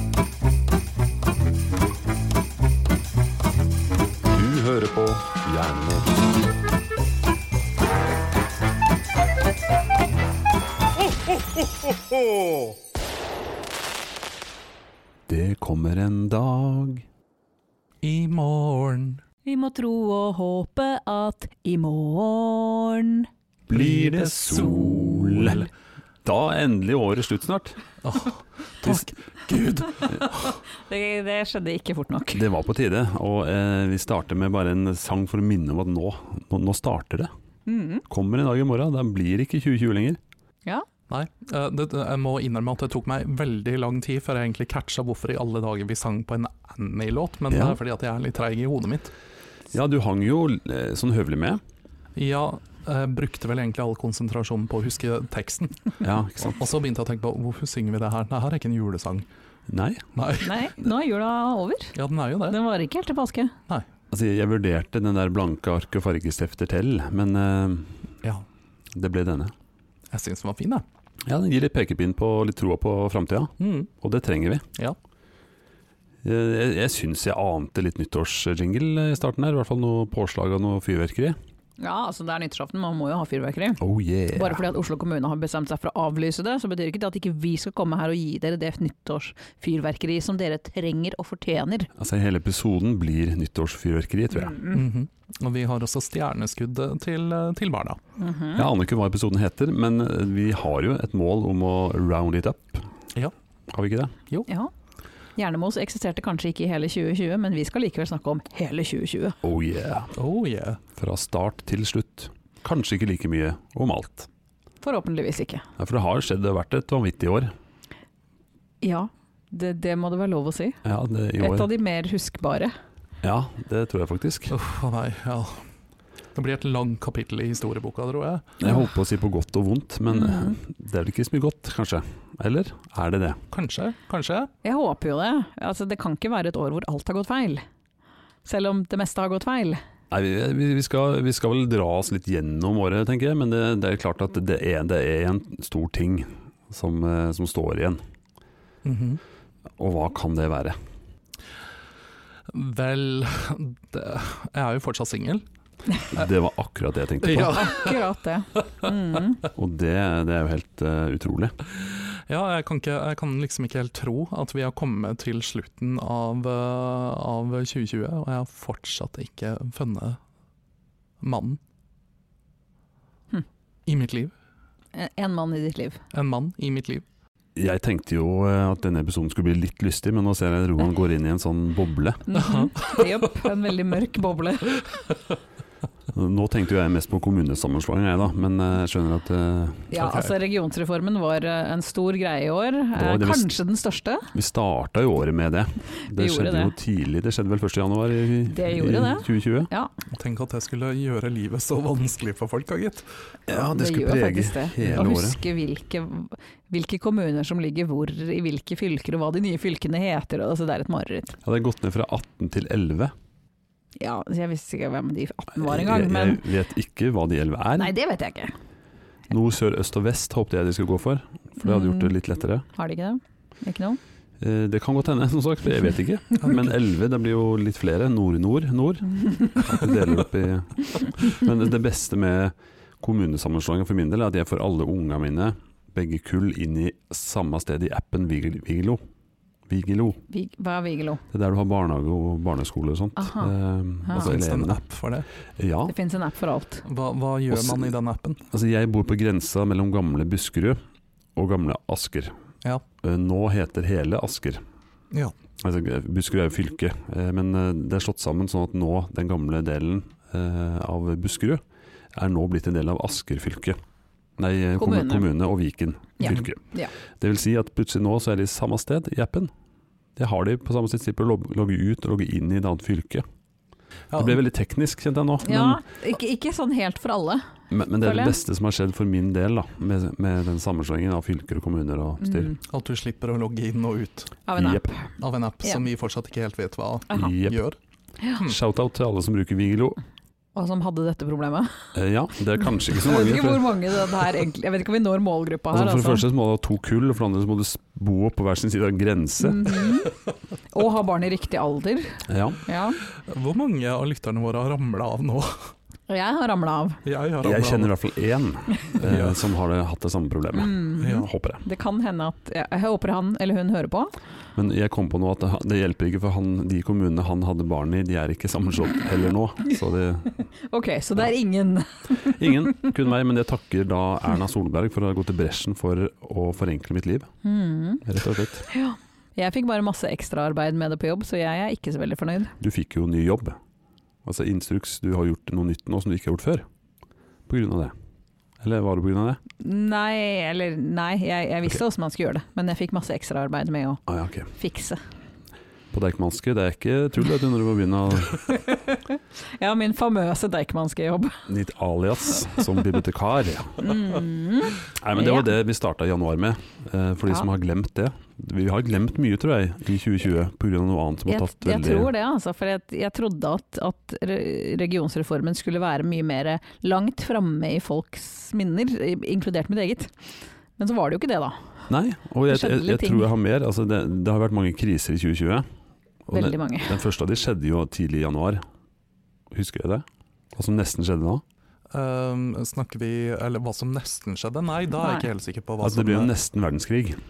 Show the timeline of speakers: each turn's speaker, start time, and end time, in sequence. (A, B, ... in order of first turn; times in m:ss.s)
0:04.3-0:06.3 A
0:15.3-0:17.1 A
0:18.0-0:19.2 B
0:19.4-0:23.3 C
0:23.7-0:25.7 A
0:23.7-0:25.7 B
0:26.2-0:27.8 A
0:28.0-0:30.6 B
0:30.7-0:32.4 C
0:32.3-0:37.3 A
0:37.7-0:38.0 C
0:38.1-0:40.2 A
0:41.1-0:49.1 B
0:47.5-0:47.8 A
0:49.7-0:51.6 A
0:52.2-0:59.3 B
0:56.0-0:56.6 A
0:59.7-1:00.1 A
1:00.2-1:00.6 B
1:00.4-1:02.0 C
1:02.0-1:02.6 B
1:02.5-1:03.6 C
1:04.1-1:08.1 A
1:08.9-1:09.5 A
1:10.1-1:10.8 B
1:11.2-1:14.7 A
1:13.6-1:13.9 B
1:16.2-1:21.4 A
1:21.8-1:31.9 C
1:23.8-1:24.6 A
1:32.0-1:34.6 A
1:34.4-1:34.8 C
1:34.7-1:38.0 B
1:38.2-1:38.7 C
1:38.6-1:42.9 A
1:43.7-1:44.1 A
1:45.4-1:49.4 C
1:49.4-1:50.2 A
1:50.2-1:50.8 B
1:51.0-1:54.3 A
1:54.8-1:55.6 C
1:55.8-1:57.5 A
1:58.8-2:00.8 C
2:00.8-2:01.7 A
2:01.4-2:02.7 C
2:03.2-2:04.5 A
2:04.5-2:05.6 B
2:06.4-2:08.6 B
2:08.6-2:13.4 A
2:10.1-2:10.6 C
2:13.5-2:14.5 B
2:14.6-2:17.6 C
2:18.4-2:19.8 C
2:20.1-2:28.0 A
2:28.8-2:29.2 B
2:29.8-2:30.8 A
2:32.5-2:35.4 B
2:36.1-2:37.7 A
2:37.2-2:38.0 B
2:37.3-2:39.4 C
2:39.6-2:41.6 A
2:42.0-2:50.2 B
2:51.2-2:51.6 B
2:53.9-2:54.3 B
2:54.9-2:56.0 C
2:56.1-2:57.0 B
2:57.6-3:02.4 A
3:02.3-3:04.8 C
3:02.4-3:03.0 B
3:06.1-3:09.9 A
3:09.9-3:14.3 C
3:10.0-3:10.3 B
3:13.0-3:13.5 A
3:14.3-3:19.7 A
3:16.0-3:16.7 C
3:18.5-3:19.9 C
3:20.1-3:23.1 B
3:23.5-3:25.4 A
3:23.5-3:31.4 C
3:31.4-3:33.1 A
3:34.0-3:36.4 C
3:35.6-3:37.9 A
3:37.8-3:38.6 C
3:39.3-3:42.7 A
3:41.6-3:42.1 C
3:42.8-3:44.0 C
3:44.4-3:59.0 A
3:59.7-4:00.2 A
4:00.3-4:01.2 C
4:01.3-4:04.8 A
4:03.2-4:03.5 C
4:04.1-4:05.3 B
4:05.6-4:05.9 A
4:05.9-4:06.8 C
4:06.8-4:08.4 B
4:07.5-4:07.9 A
4:08.5-4:10.8 A
4:11.4-4:12.4 A
4:13.0-4:14.6 A
4:15.6-4:23.8 A
4:24.4-4:26.6 A
4:24.8-4:25.3 C
4:26.2-4:26.9 C
4:27.2-4:29.5 A
4:30.2-4:33.2 A
4:34.1-4:34.4 B
4:34.2-4:35.8 A
4:35.4-4:37.5 C
4:37.7-4:42.6 A
4:38.0-4:38.4 C
4:42.2-4:42.6 C
4:42.7-4:44.4 B
4:44.5-4:45.0 C
4:44.6-4:44.9 A
4:45.2-4:47.8 B
4:47.1-4:47.6 A
4:48.4-4:50.0 A
4:50.6-4:51.9 C
4:51.9-4:54.1 A
4:52.9-4:56.2 C
4:55.7-5:00.0 A
4:59.4-5:00.1 C
5:00.7-5:03.0 C
5:02.3-5:02.6 A
5:03.1-5:05.7 B
5:06.1-5:07.0 C
5:07.0-5:07.9 B
5:07.4-5:11.6 A
5:09.0-5:09.5 B
5:10.5-5:14.1 C
5:11.0-5:11.3 B
5:14.6-5:20.4 A
5:20.6-5:22.9 C
5:22.1-5:27.3 A
5:27.4-5:28.0 C
5:28.0-5:28.7 A
5:28.7-5:32.6 C
5:32.6-5:33.6 A
5:34.2-5:36.7 A
5:37.5-5:37.9 A
5:38.6-5:39.4 A
5:39.6-5:45.0 C
5:44.1-5:44.5 A
5:45.9-5:48.5 A
5:48.5-5:51.5 C
5:51.5-5:54.0 A
5:53.8-5:55.5 C
5:54.9-6:02.1 A
6:01.3-6:10.1 C
6:10.8-6:11.6 C
6:11.9-6:15.7 A
6:12.5-6:13.3 C
6:16.2-6:18.6 A
6:16.3-6:17.0 C
6:19.5-6:21.4 A
6:21.9-6:26.3 B
6:25.0-6:25.2 C
6:25.8-6:27.2 A